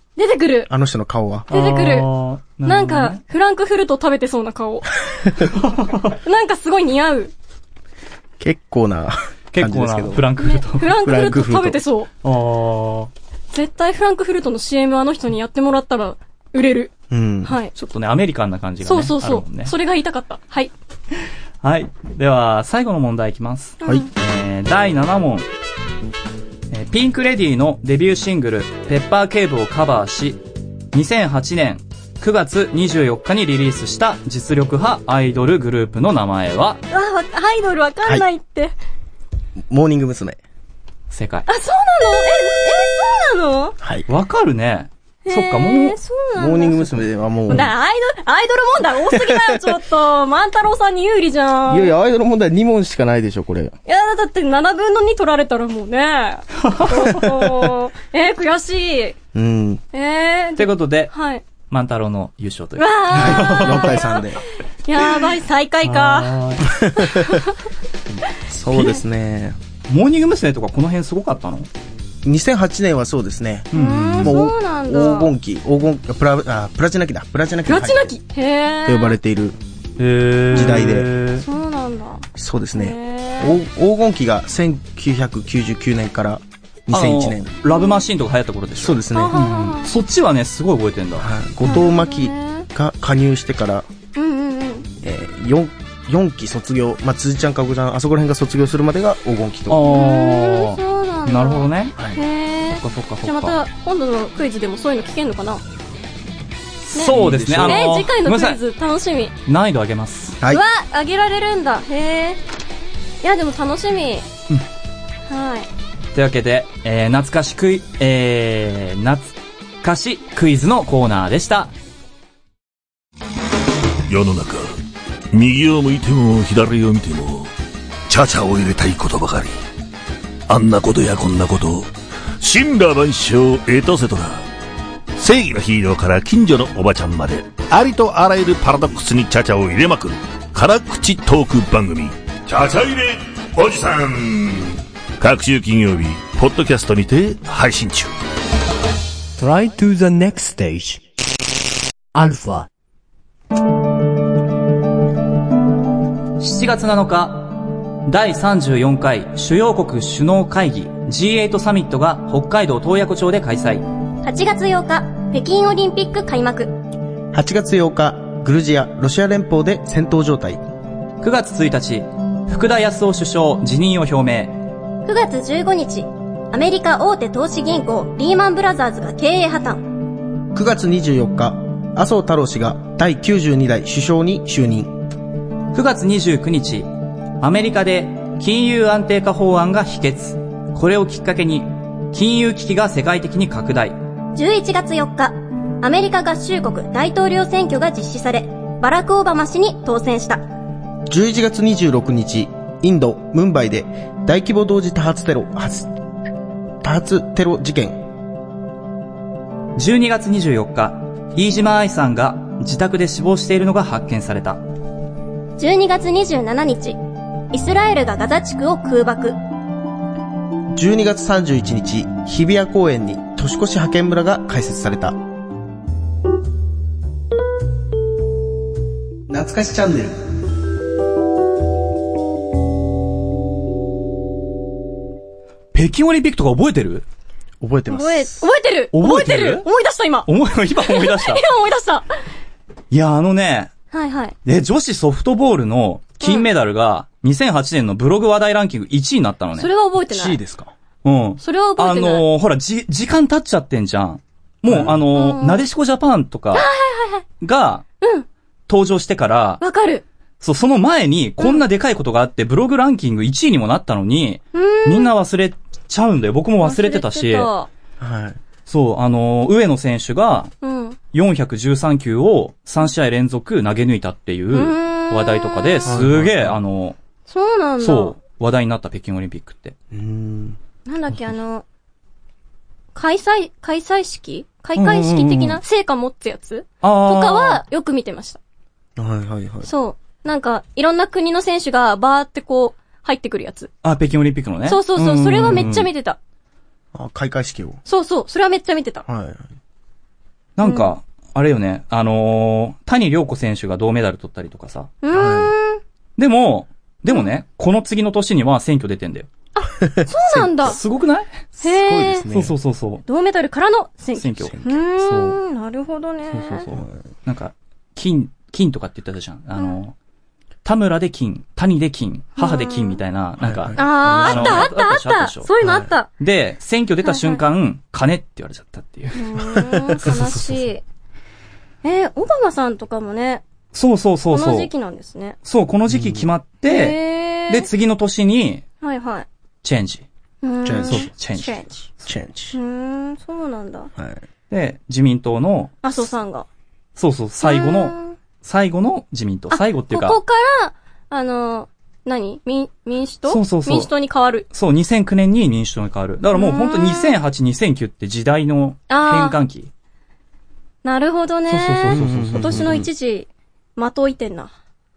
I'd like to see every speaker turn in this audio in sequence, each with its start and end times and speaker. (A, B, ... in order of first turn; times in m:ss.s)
0:00.2-0:00.7 A
0:00.7-0:01.5 B
0:01.5-0:03.2 C
0:01.5-0:02.1 A
0:02.6-0:05.3 A
0:05.4-0:06.2 C
0:06.2-0:07.3 A
0:08.4-0:10.3 B
0:09.5-0:10.9 C
0:10.4-0:12.1 A
0:10.9-0:11.8 B
0:12.2-0:13.1 C
0:13.5-0:16.9 A
0:17.1-0:17.5 B
0:17.4-0:17.7 A
0:17.7-0:19.7 C
0:18.8-0:20.7 A
0:21.6-0:25.5 C
0:23.8-0:24.1 A
0:23.8-0:24.1 B
0:26.7-0:30.4 C
0:30.9-0:36.8 C
0:36.9-0:38.7 A
0:39.7-0:40.4 B
0:41.1-0:41.5 C
0:41.5-0:43.7 A
0:44.1-0:46.0 C
0:45.3-0:51.9 A
0:46.4-0:47.7 B
0:49.1-0:49.6 B
0:51.7-0:53.7 B
0:53.9-0:59.2 A
0:56.6-0:56.9 C
0:59.3-0:59.8 B
0:59.9-1:01.4 A
1:00.6-1:01.1 C
1:01.7-1:03.9 C
1:02.8-1:04.3 A
1:03.1-1:04.4 B
1:04.8-1:06.4 A
1:05.8-1:06.7 C
1:06.6-1:07.4 B
1:07.0-1:07.5 A
1:08.5-1:09.6 B
1:09.9-1:11.7 C
1:12.2-1:18.1 B
1:13.7-1:14.4 C
1:13.7-1:15.3 A
1:17.6-1:19.2 A
1:18.8-1:19.6 B
1:20.0-1:21.4 C
1:20.5-1:21.1 B
1:21.4-1:23.6 A
1:22.4-1:27.5 B
1:26.9-1:31.8 C
1:27.7-1:28.0 A
1:28.8-1:29.4 B
1:29.1-1:29.9 A
1:31.2-1:33.9 B
1:31.6-1:32.7 A
1:34.2-1:34.9 A
1:35.0-1:39.8 B
1:39.7-1:41.9 C
1:39.9-1:45.6 A
1:42.7-1:43.6 C
1:46.8-1:48.6 C
1:46.9-1:49.3 A
1:47.1-1:47.9 B
1:49.4-1:50.4 C
1:50.5-1:52.4 A
1:53.2-1:54.3 A
1:55.3-1:55.7 A
1:56.1-2:01.7 C
2:04.1-2:04.8 D
2:05.3-2:07.5 D
2:08.1-2:09.5 D
2:10.5-2:14.4 D
2:15.2-2:28.1 D
2:29.4-2:31.0 E
2:32.1-2:32.7 E
2:36.4-2:43.8 C
2:44.2-2:46.8 F
2:47.3-2:50.6 B
2:51.2-2:54.6 C
2:55.0-2:59.8 F
3:00.5-3:04.9 B
3:05.7-3:06.9 C
3:07.4-3:14.0 C
3:14.3-3:20.4 F
3:21.1-3:25.9 B
3:26.8-3:28.0 B
3:29.8-3:34.6 C
3:35.6-3:37.0 F
3:37.5-3:39.4 F
3:40.7-3:45.2 B
3:49.3-3:50.2 B
3:55.7-3:57.0 C
3:57.6-3:58.4 B
3:57.9-4:02.1 A
3:58.9-3:59.6 C
4:00.2-4:01.4 C
4:02.9-4:03.7 C
4:03.9-4:04.4 A
4:04.4-4:09.7 C
4:06.2-4:06.5 A
4:09.6-4:10.4 A
4:10.0-4:10.7 B
4:11.0-4:16.6 C
4:11.4-4:12.2 A
4:14.8-4:15.6 A
4:16.5-4:17.2 A
4:17.4-4:17.8 C
4:18.0-4:18.3 A
4:18.7-4:19.6 C
4:19.6-4:20.0 A
4:20.4-4:27.5 C
4:24.5-4:25.1 A
4:26.6-4:27.7 A
4:28.0-4:28.4 B
4:28.7-4:30.5 C
4:30.6-4:31.0 A
4:31.1-4:37.0 C
4:34.5-4:35.9 A
4:35.8-4:36.6 B
4:37.3-4:38.1 A
4:37.8-4:39.7 C
4:39.9-4:40.6 B
4:40.8-4:41.6 A
4:42.9-4:48.4 A
4:44.8-4:45.6 C
4:46.8-4:47.6 C
4:49.0-4:49.7 B
4:49.6-4:53.7 A
4:53.8-4:55.9 C
4:54.6-4:56.2 A
4:56.9-4:57.8 B
4:57.8-4:59.0 A
4:59.0-4:59.4 B
5:00.6-5:04.9 C
5:00.6-5:00.9 A
5:05.0-5:05.8 A
5:05.1-5:05.5 B
5:06.2-5:09.3 C
5:09.5-5:10.8 A
5:09.9-5:10.7 B
5:10.3-5:11.4 C
5:11.6-5:12.5 B
5:11.6-5:12.3 A
5:12.3-5:13.0 C
5:13.0-5:16.7 A
5:14.1-5:15.4 C
5:14.5-5:14.8 B
5:16.3-5:19.9 C
5:20.6-5:25.5 C
5:22.4-5:23.0 A
5:23.4-5:24.9 B
5:23.8-5:26.1 A
5:25.6-5:25.9 B
5:26.2-5:29.2 C
5:27.0-5:27.4 A
5:29.2-5:30.8 A
5:29.5-5:29.9 B
5:30.0-5:30.6 C
5:31.8-5:33.4 A
5:33.7-5:34.7 C
5:34.3-5:35.4 A
5:35.4-5:37.0 C
5:35.9-5:36.3 B
5:36.6-5:37.7 A
5:37.5-5:38.6 C
5:38.8-5:39.2 A
5:39.6-5:40.0 C
5:40.4-5:41.8 A
5:40.6-5:41.1 B
5:40.9-5:42.1 C
5:42.0-5:42.6 B
5:42.5-5:43.9 A
5:44.0-5:44.2 B
5:44.5-5:45.7 C
5:45.8-5:46.4 A
5:47.0-5:50.2 C
5:47.4-5:48.2 A
5:49.5-5:54.5 A
5:53.3-5:53.9 C
5:54.5-5:59.7 C
5:56.3-5:57.2 A
5:58.9-5:59.4 A
6:00.8-6:04.5 A
6:01.5-6:02.8 C
6:01.9-6:02.9 B